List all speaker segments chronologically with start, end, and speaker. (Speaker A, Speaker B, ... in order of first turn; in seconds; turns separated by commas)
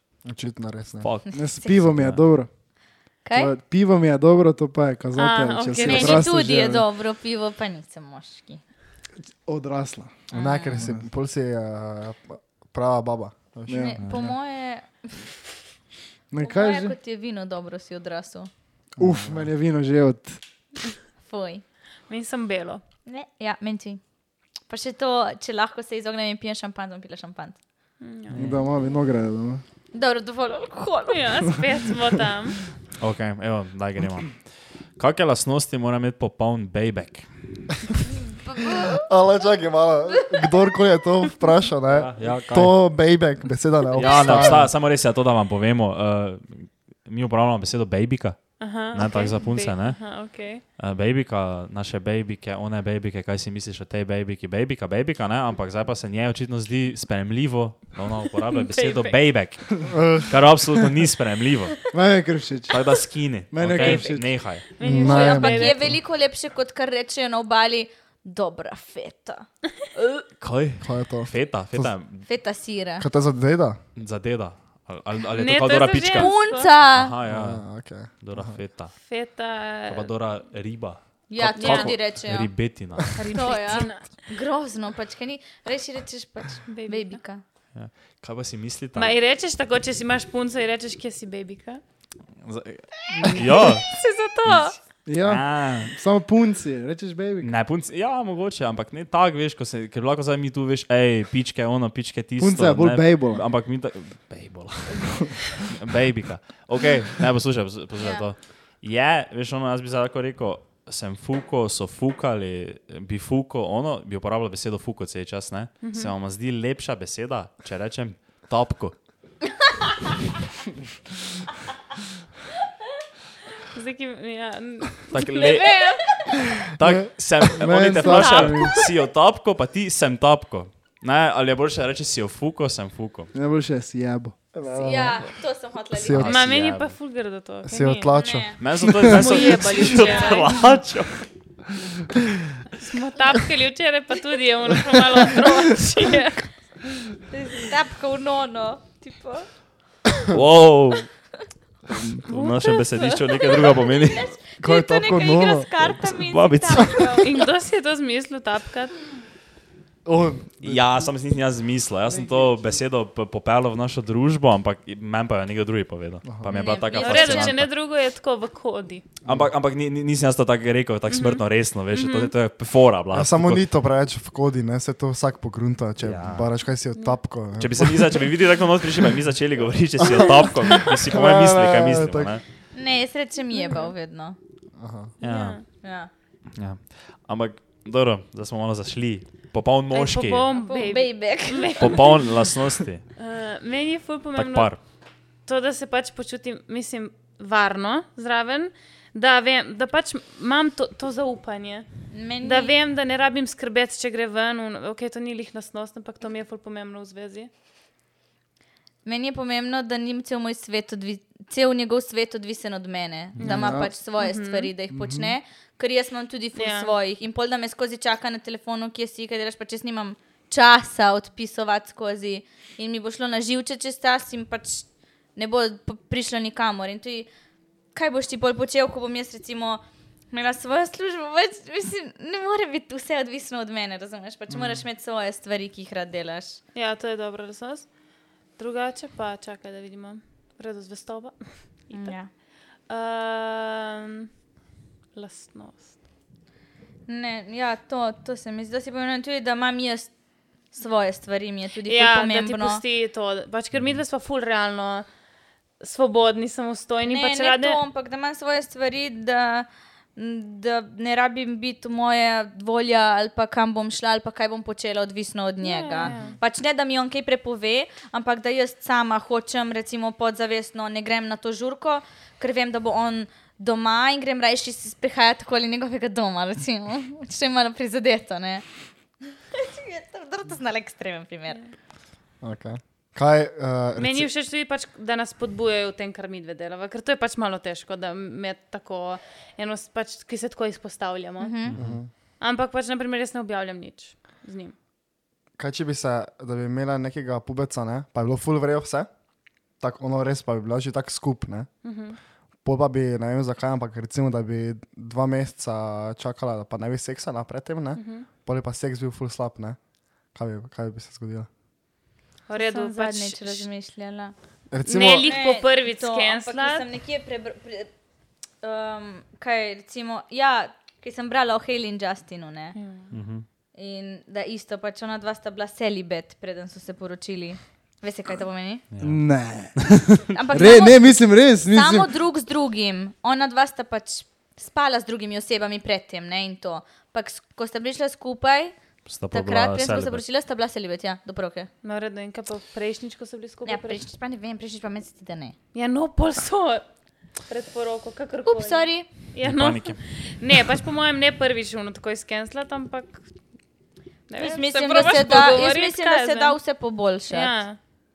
Speaker A: 0.2-1.1, Speaker B: 1.0-2.2, Speaker C: 1.3-1.7, Speaker D: 1.3-2.5, Speaker C: 3.2-3.5, Speaker D: 3.3-6.8, Speaker E: 5.1-6.3, Speaker C: 5.8-8.6, Speaker D: 9.3-11.0, Speaker C: 10.3-10.8, Speaker A: 10.3-14.3, Speaker D: 13.7-14.0, Speaker C: 13.7-15.3, Speaker D: 16.3-16.9, Speaker C: 16.4-18.5, Speaker D: 19.0-20.4, Speaker A: 19.0-19.5, Speaker C: 21.2-21.6, Speaker E: 22.1-22.8, Speaker C: 23.1-24.0, Speaker C: 24.7-27.6, Speaker E: 28.0-28.5, Speaker B: 28.3-28.6, Speaker D: 28.3-29.6, Speaker C: 29.9-31.5, Speaker E: 31.1-32.6, Speaker B: 33.0-37.6, Speaker C: 38.2-39.1, Speaker A: 38.8-44.7, Speaker B: 41.9-42.8, Speaker B: 43.9-50.1, Speaker C: 44.1-44.5, Speaker E: 48.6-50.6, Speaker B: 50.8-61.8, Speaker E: 58.5-59.2, Speaker A: 59.9-60.3, Speaker D: 61.9-62.8, Speaker B: 62.7-64.6, Speaker D: 63.5-64.4, Speaker E: 63.7-64.1, Speaker E: 64.7-65.8, Speaker A: 64.8-66.0, Speaker C: 64.9-69.5, Speaker B: 70.4-72.2, Speaker A: 70.8-71.9, Speaker C: 72.2-73.0, Speaker A: 73.0-73.8, Speaker B: 74.0-76.3, Speaker E: 75.3-76.7, Speaker C: 75.9-77.1, Speaker B: 76.9-79.0, Speaker A: 77.2-78.6, Speaker E: 79.0-80.1, Speaker B: 79.9-83.2, Speaker C: 81.3-82.5, Speaker E: 81.5-82.0, Speaker E: 83.1-84.1, Speaker C: 83.3-87.4, Speaker E: 86.7-87.2, Speaker B: 87.7-89.2, Speaker E: 89.0-91.8, Speaker B: 92.4-93.9, Speaker E: 93.2-94.8, Speaker B: 94.4-95.9, Speaker D: 95.0-97.5, Speaker B: 97.4-119.0, Speaker D: 102.4-103.4, Speaker C: 108.0-108.2, Speaker E: 115.8-116.1, Speaker E: 123.7-126.0, Speaker B: 125.1-126.1, Speaker C: 125.4-126.4, Speaker B: 126.8-133.3, Speaker D: 127.5-128.8, Speaker E: 128.0-128.7, Speaker D: 133.3-134.5, Speaker A: 134.5-135.3, Speaker C: 134.7-136.4, Speaker A: 135.9-136.3, Speaker B: 136.1-136.9, Speaker E: 136.2-138.1, Speaker A: 137.7-138.6, Speaker C: 138.1-138.6, Speaker B: 138.6-141.3, Speaker E: 139.1-140.7, Speaker C: 139.2-140.5, Speaker E: 142.7-146.5, Speaker C: 147.3-149.5, Speaker B: 150.3-151.1, Speaker B: 151.9-154.3, Speaker E: 152.3-152.8, Speaker C: 153.0-157.4, Speaker A: 154.6-155.7, Speaker B: 155.8-157.2, Speaker E: 157.2-158.9, Speaker A: 160.0-160.8, Speaker B: 160.6-167.7, Speaker A: 166.2-166.5, Speaker C: 166.5-167.5, Speaker E: 166.8-169.0, Speaker B: 169.2-173.6, Speaker E: 171.1-172.3, Speaker A: 173.1-178.3, Speaker B: 176.0-176.5, Speaker B: 177.6-182.4, Speaker A: 180.0-182.4, Speaker C: 182.7-184.4, Speaker E: 183.5-183.9, Speaker A: 184.8-185.1, Speaker E: 185.2-185.6, Speaker B: 185.2-185.6, Speaker C: 185.8-186.1, Speaker B: 186.5-190.5, Speaker E: 189.9-192.2, Speaker C: 190.5-192.2, Speaker B: 191.8-193.0, Speaker E: 193.2-194.7, Speaker B: 194.3-194.8, Speaker E: 195.4-207.5, Speaker C: 202.1-202.7, Speaker C: 209.0-227.3, Speaker B: 213.4-213.6, Speaker E: 213.4-214.7, Speaker D: 213.4-213.9, Speaker D: 214.9-215.3, Speaker E: 216.5-216.9, Speaker C: 227.9-236.6, Speaker D: 234.5-234.8, Speaker E: 236.7-237.9, Speaker E: 238.6-242.2, Speaker C: 241.9-242.3, Speaker E: 242.9-244.3, Speaker E: 245.1-246.0, Speaker C: 247.1-250.1, Speaker C: 250.7-252.8, Speaker E: 251.8-255.1, Speaker B: 253.7-254.0, Speaker E: 255.8-257.8, Speaker C: 257.0-278.6, Speaker E: 265.6-266.4, Speaker D: 266.1-266.4, Speaker C: 279.5-281.6, Speaker A: 282.4-284.3, Speaker E: 284.0-291.5, Speaker C: 291.4-291.8, Speaker B: 291.7-292.0, Speaker A: 291.8-292.1, Speaker E: 292.4-294.7, Speaker A: 295.6-299.1, Speaker A: 299.8-301.7, Speaker E: 301.8-302.2, Speaker A: 302.6-309.8, Speaker E: 307.9-308.3, Speaker A: 310.3-311.5, Speaker E: 312.5-313.7, Speaker C: 312.5-314.3, Speaker A: 314.7-315.3, Speaker E: 314.8-316.8, Speaker C: 315.1-317.9, Speaker C: 318.6-322.8, Speaker E: 322.7-323.1, Speaker B: 323.1-323.4, Speaker C: 323.7-328.8, Speaker B: 328.9-329.2, Speaker D: 329.0-332.1, Speaker C: 330.3-338.7, Speaker B: 339.1-340.2, Speaker C: 339.3-341.7, Speaker E: 341.8-344.0, Speaker C: 343.6-345.5, Speaker E: 345.7-346.8, Speaker E: 347.5-353.2, Speaker C: 348.4-349.1, Speaker B: 349.4-350.0, Speaker E: 354.3-356.6, Speaker C: 354.4-357.5, Speaker E: 357.3-357.8